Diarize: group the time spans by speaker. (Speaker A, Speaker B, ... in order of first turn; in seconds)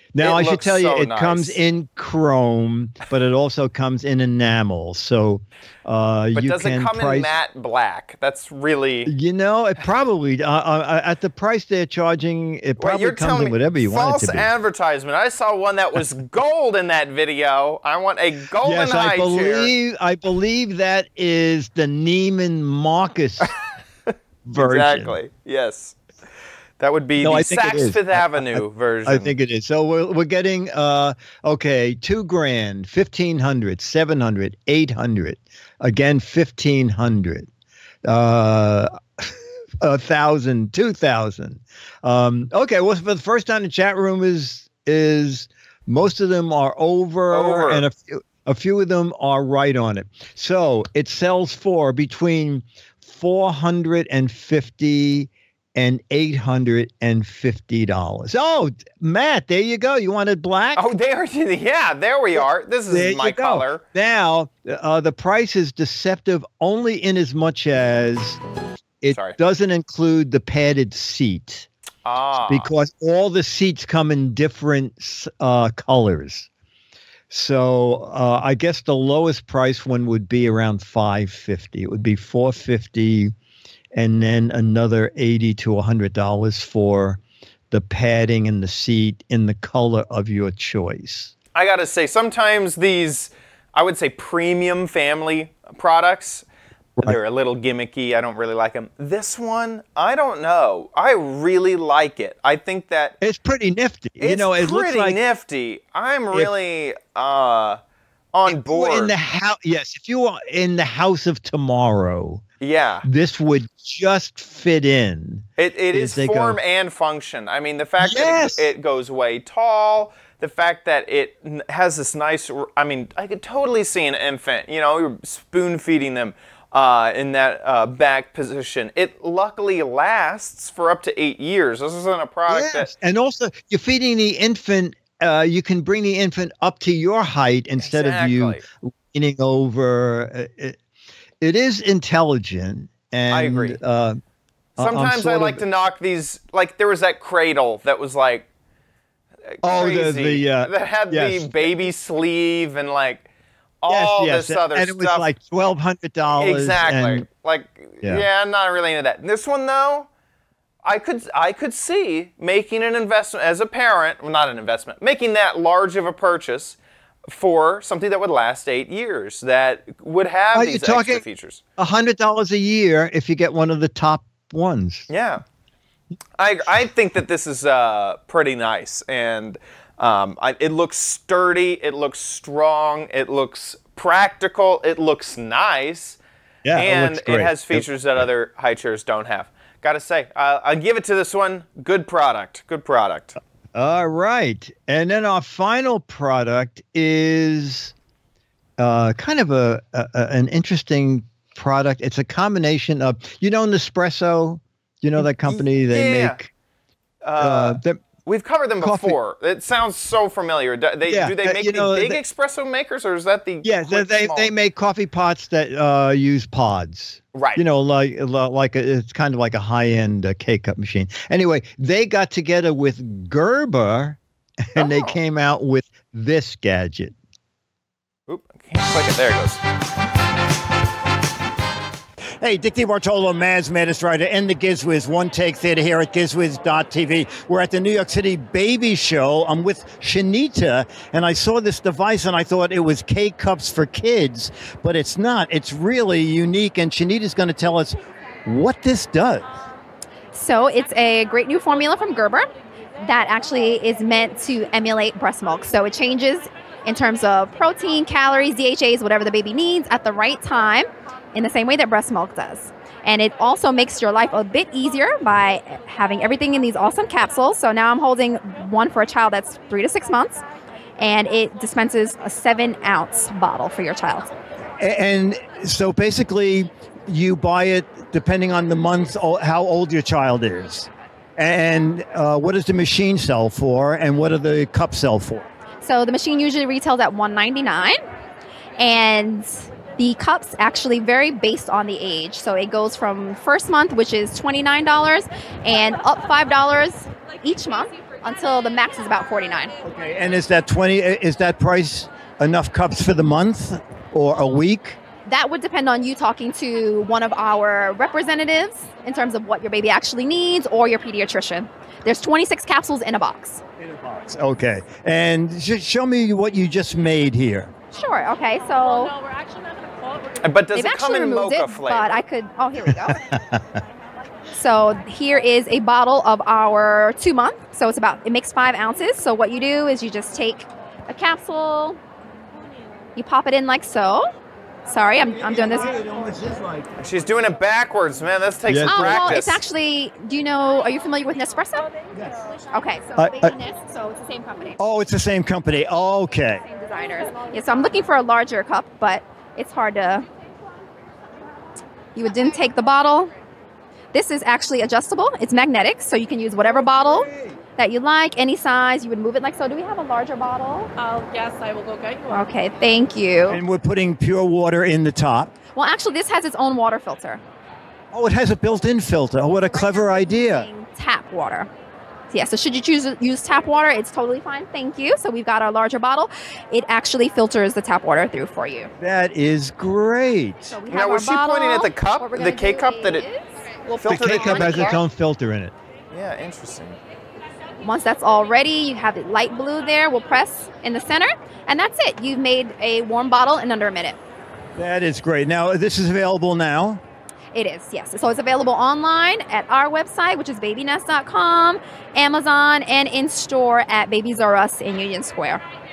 Speaker A: 0.1-7.3, 9.1-14.5, 18.6-23.5, 24.4-25.2, 27.2-37.5, 38.0-60.9, 62.4-68.4, 69.0-71.7, 72.5-76.5, 77.3-83.3, 83.9-87.2, 87.7-91.3, 103.2-105.2, 108.5-112.4, 113.0-116.6, 118.0-118.7, 132.5-140.8, 141.4-144.2, 144.8-145.6, 149.6-151.7, 153.9-157.3, 170.5-171.2, 171.8-175.1, 186.6-188.2, 193.8-197.9, 198.8-206.5, 207.4-208.0, 208.8-209.2, 211.1-212.2, 213.6-227.2, 248.5-249.5, 323.2-323.8, 338.7-339.1, 379.0-380.8, 384.1-385.7
Speaker B: 0.2-1.6, 6.3-9.1, 12.8-19.7, 24.6-26.0, 26.8-29.3, 47.3-47.9, 60.8-63.8, 69.1-69.4, 72.0-72.7, 91.5-96.5, 97.0-103.2, 104.2-107.8, 108.3-109.1, 112.6-113.1, 115.6-132.9, 137.8-138.6, 143.3-143.8, 144.8-148.5, 149.6-153.3, 153.8-155.3, 156.4-160.1, 160.8-166.8, 167.3-171.6, 175.1-175.4, 176.4-186.2, 186.8-193.4, 205.5-206.4, 207.2-214.5, 217.3-217.6, 224.8-225.2, 228.3-229.6, 320.4-322.2, 337.0-339.6, 380.9-383.2, 383.9-385.0, 386.1-387.0
Speaker C: 232.4-247.9, 248.5-249.4, 274.8-285.5, 299.8-305.0, 313.8-317.7, 335.5-336.9, 343.2-343.5, 344.8-346.6, 356.8-357.6, 363.5-365.5, 368.1-370.7, 384.1-384.7, 394.8-397.0
Speaker D: 250.3-252.5, 253.0-270.4, 271.0-274.3, 285.8-288.0, 288.8-299.7, 305.2-313.6, 317.9-319.1, 320.7-323.2, 324.5-332.0, 333.2-334.3, 334.9-336.0, 338.8-341.9, 342.7-344.8, 346.7-350.3, 352.1-353.3, 354.1-360.9, 362.3-363.6, 365.7-367.4, 369.7-371.7, 372.3-378.9, 380.7-385.0, 387.8-394.2, 397.5-405.6
Speaker E: 318.6-320.6, 361.0-362.5